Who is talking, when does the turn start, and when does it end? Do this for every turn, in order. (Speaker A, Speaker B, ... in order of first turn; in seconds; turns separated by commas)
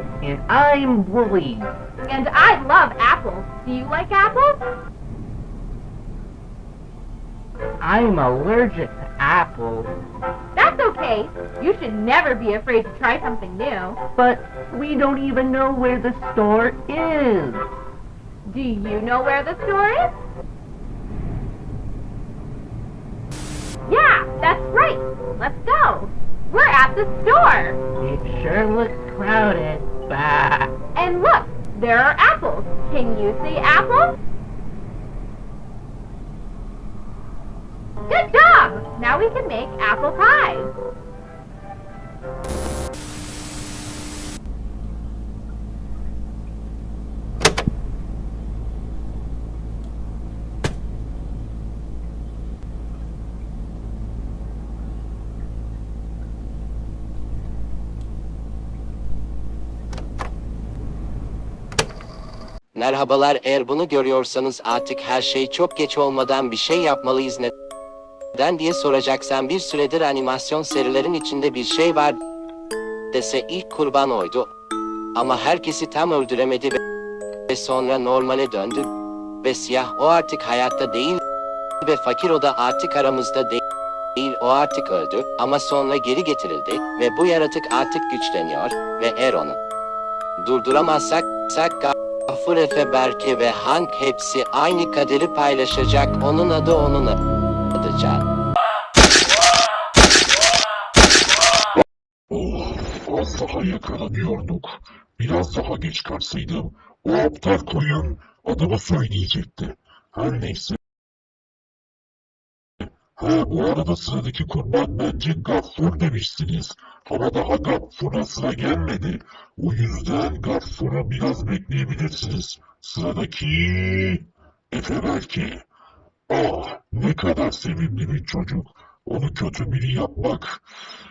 Speaker A: 0.2-1.7, Speaker B: 2.0-4.6, Speaker A: 7.8-9.9, Speaker B: 10.5-14.0, Speaker A: 14.2-17.7, Speaker B: 18.4-20.1, Speaker B: 23.9-27.8, Speaker A: 28.0-30.7, Speaker B: 30.9-34.2, Speaker B: 38.1-40.7, Speaker C: 62.7-67.5, Speaker C: 68.3-72.2, Speaker C: 73.1-74.5, Speaker C: 75.2-76.8, Speaker C: 77.5-78.9, Speaker C: 79.4-81.2, Speaker C: 81.8-83.6, Speaker C: 84.2-89.6, Speaker C: 90.4-97.2, Speaker C: 97.7-98.2, Speaker D: 102.3-110.8, Speaker D: 113.2-125.6, Speaker D: 126.3-130.6